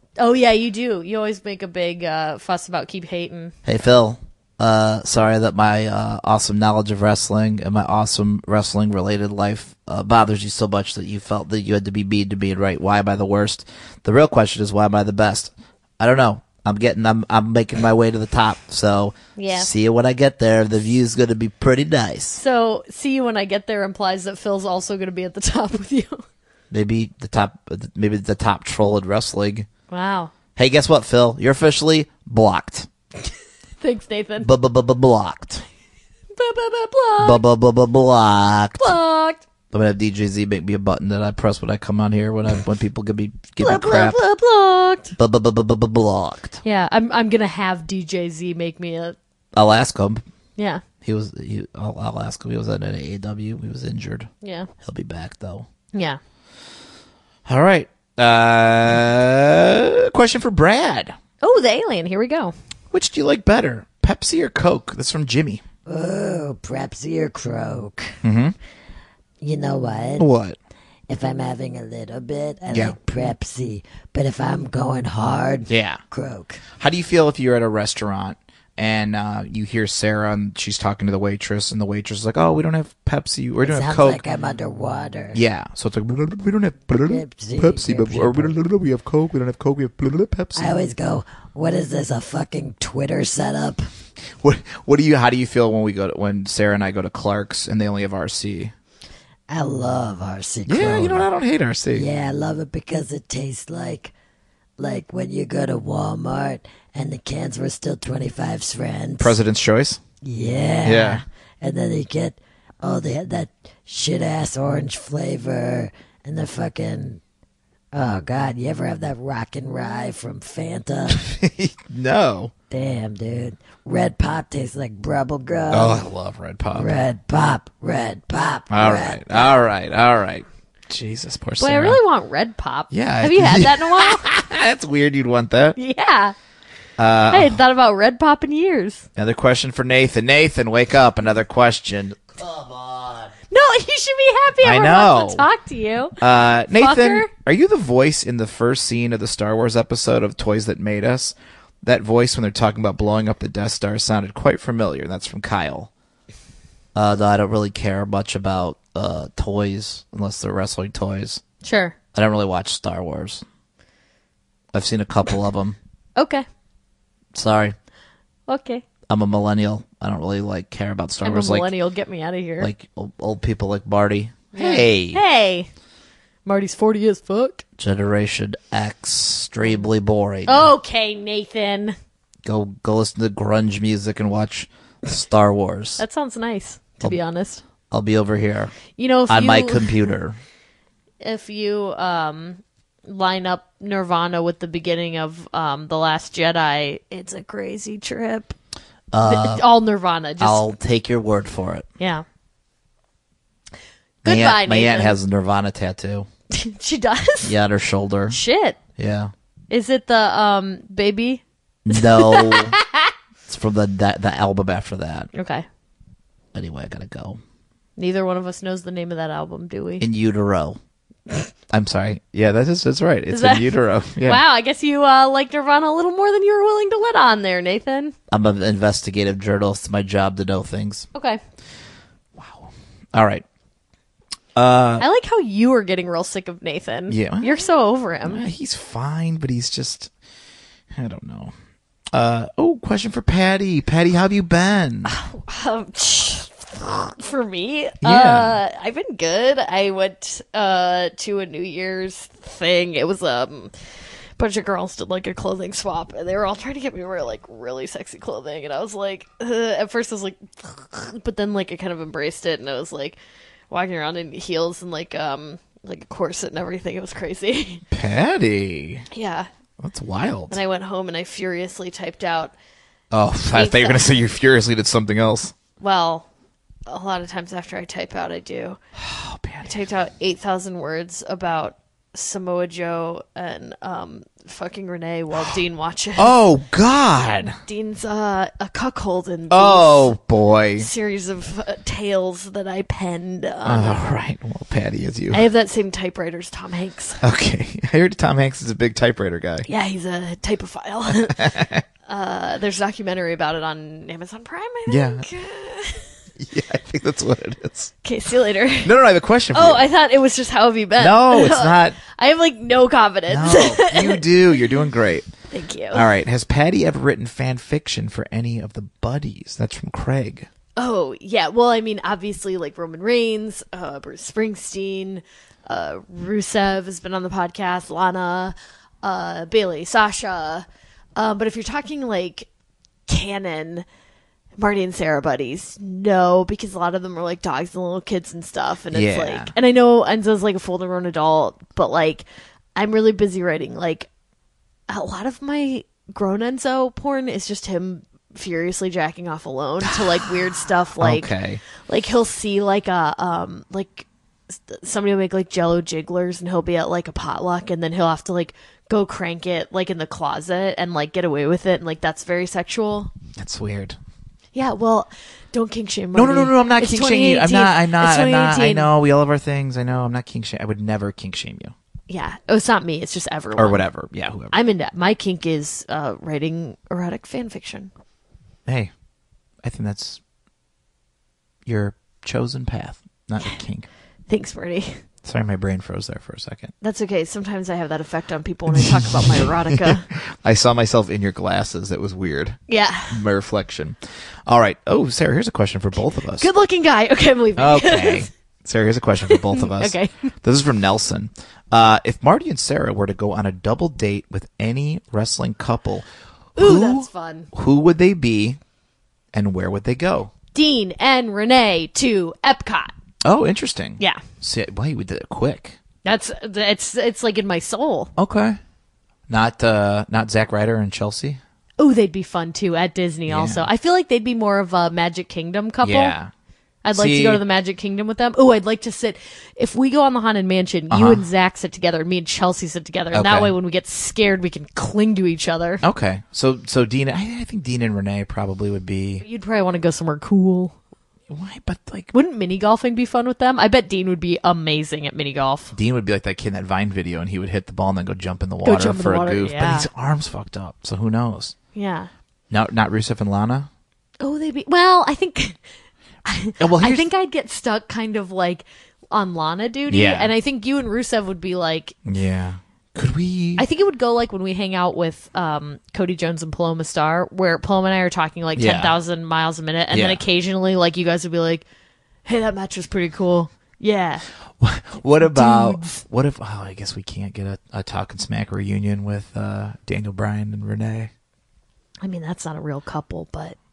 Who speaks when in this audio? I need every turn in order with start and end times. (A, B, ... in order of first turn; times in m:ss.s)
0:00.2-0:03.5 A
0:03.6-0:22.4 B
0:19.4-0:19.7 A
0:22.3-0:26.2 A
0:26.7-0:29.7 B
0:29.9-0:30.3 A
0:30.6-0:32.9 B
0:33.8-0:34.5 A
0:34.4-0:35.6 B
0:36.3-0:37.4 A
0:37.2-0:39.0 B
0:38.8-0:39.4 A
0:39.7-0:44.2 B
0:43.6-0:45.2 A
0:45.2-0:46.6 B
0:46.6-0:49.2 A
0:49.5-0:50.2 B
0:50.6-0:50.8 A
0:51.0-0:54.3 B
0:54.4-0:54.7 A
0:54.8-0:55.7 B
0:55.9-0:56.2 A
0:57.5-1:01.1 B
1:01.4-1:02.5 A
1:02.9-1:05.6 B
1:05.9-1:08.2 C
1:08.2-1:08.6 B
1:09.4-1:10.3 C
1:10.2-1:10.6 B
1:11.1-1:16.6 C
1:12.7-1:13.0 B
1:15.7-1:16.0 B
1:16.8-1:24.2 B
1:23.6-1:25.4 C
1:25.3-1:30.7 B
1:27.0-1:28.6 C
1:30.6-1:33.9 C
1:34.4-1:38.7 B
1:39.5-1:41.3 C
1:40.7-1:42.1 B
1:41.9-1:44.1 C
1:44.8-1:49.4 C
1:49.2-1:50.0 B
1:50.2-1:57.2 C
1:50.8-1:51.2 B
1:57.9-2:01.2 C
2:01.1-2:02.5 B
2:02.7-2:06.0 C
2:05.7-2:07.1 B
2:06.7-2:09.6 C
2:08.7-2:12.0 B
2:11.6-2:14.3 A
2:12.9-2:15.8 B
2:15.8-2:16.4 A
2:17.0-2:17.6 B
2:17.3-2:19.0 A
2:19.2-2:23.3 B
2:23.5-2:26.2 A
2:24.6-2:25.4 B
2:26.2-2:35.9 B
2:26.7-2:27.3 A
2:36.9-2:41.4 B
2:41.6-2:41.9 A
2:42.1-2:43.4 B
2:44.7-2:45.8 B
2:46.2-2:46.4 A
2:47.3-2:47.8 B
2:48.5-2:48.8 A
2:49.1-2:51.7 B
2:51.2-2:52.7 A
2:52.6-2:55.2 B
2:54.5-2:55.7 A
2:56.4-2:57.6 A
2:57.8-3:00.7 B
3:00.4-3:02.0 A
3:02.4-3:06.0 B
3:06.0-3:07.6 A
3:07.9-3:08.8 B
3:09.0-3:10.1 A
3:09.3-3:10.4 B
3:11.2-3:18.6 A
3:19.1-3:19.6 B
3:19.2-3:20.7 A
3:20.4-3:21.9 B
3:22.0-3:22.2 A
3:24.2-3:25.2 A
3:24.2-3:26.3 B
3:26.5-3:27.5 A
3:27.4-3:28.4 B
3:28.3-3:28.8 A
3:29.0-3:29.3 B
3:29.7-3:33.1 A
3:31.9-3:32.8 B
3:33.5-3:35.3 B
3:35.3-3:35.7 A
3:36.5-3:37.4 B
3:38.0-3:40.0 A
3:40.0-3:40.8 B
3:41.7-3:44.4 B
3:43.3-3:48.1 A
3:48.3-3:51.1 B
3:51.1-3:51.4 A
3:52.4-3:53.4 B
3:54.6-3:55.0 B
3:55.0-3:58.4 A
3:57.1-3:57.6 B
3:58.2-4:00.1 B
4:00.9-4:01.5 B
4:02.1-4:05.1 B
4:05.1-4:13.7 A
4:08.0-4:08.6 B
4:14.4-4:23.2 A
4:23.7-4:27.8 A
4:27.9-4:29.1 B
4:29.1-4:29.5 A
4:29.8-4:30.6 B
4:30.5-4:32.5 A
4:33.1-4:35.5 B
4:33.5-4:34.1 A
4:35.8-4:36.3 A
4:36.9-4:38.8 A
4:39.0-4:39.8 B
4:39.6-4:46.4 A
4:46.2-4:47.5 B
4:47.2-4:50.1 A
4:49.5-4:50.9 B
4:50.8-4:54.0 A
4:53.6-4:55.4 B
4:55.3-4:57.2 A
4:57.2-4:59.7 B
4:59.6-5:01.5 A
5:01.3-5:01.8 B
5:02.0-5:06.1 A
5:04.9-5:05.2 B
5:06.4-5:07.9 B
5:08.0-5:08.9 A
5:08.8-5:09.9 B
5:09.5-5:14.6 A
5:11.0-5:12.0 B
5:13.3-5:15.3 B
5:15.5-5:16.1 A
5:15.9-5:20.5 B
5:20.8-5:32.5 A
5:33.1-5:33.8 A
5:34.6-5:44.1 A
5:38.9-5:39.5 B
5:44.9-5:51.3 A
5:49.8-5:50.1 B
5:51.0-5:51.6 B
5:51.8-6:03.1 A
6:03.4-6:04.0 B
6:04.5-6:08.9 A
6:06.2-6:11.7 B
6:12.1-6:13.8 A
6:13.6-6:14.5 B
6:14.5-6:17.9 A
6:19.6-6:20.2 B
6:21.7-6:23.9 B
6:24.3-6:25.0 A
6:25.2-6:26.7 B
6:26.8-6:30.1 A
6:28.7-6:32.6 B
6:32.7-6:33.2 A
6:33.1-6:36.5 B
6:36.3-6:38.3 A
6:37.6-6:46.1 B
6:39.3-6:40.3 A
6:46.6-6:47.5 A
6:46.6-6:48.6 B
6:49.3-6:50.3 B
6:50.5-6:52.9 A
6:53.2-6:55.8 B
6:56.0-6:58.1 A
6:58.2-6:58.6 B
6:59.3-7:01.4 B
7:01.8-7:06.2 A
7:03.3-7:03.7 B
7:05.8-7:06.3 B
7:06.8-7:15.8 A
7:06.9-7:07.4 B
7:10.9-7:11.2 B
7:13.1-7:13.5 B
7:15.8-7:19.2 B
7:19.2-7:20.8 A
7:21.3-7:22.1 B
7:22.1-7:25.7 A
7:25.7-7:31.6 B
7:28.6-7:29.9 A
7:31.7-7:32.1 A
7:32.5-7:33.7 B
7:34.2-7:35.6 A
7:36.2-7:41.9 A
7:36.6-7:37.0 B
7:39.9-7:40.3 B
7:42.1-7:43.6 B
7:43.6-7:51.6 A
7:48.6-7:48.9 B
7:49.9-7:50.2 B
7:52.3-7:54.2 A
7:54.6-8:01.1 B
7:55.2-7:56.0 A
8:02.0-8:03.6 A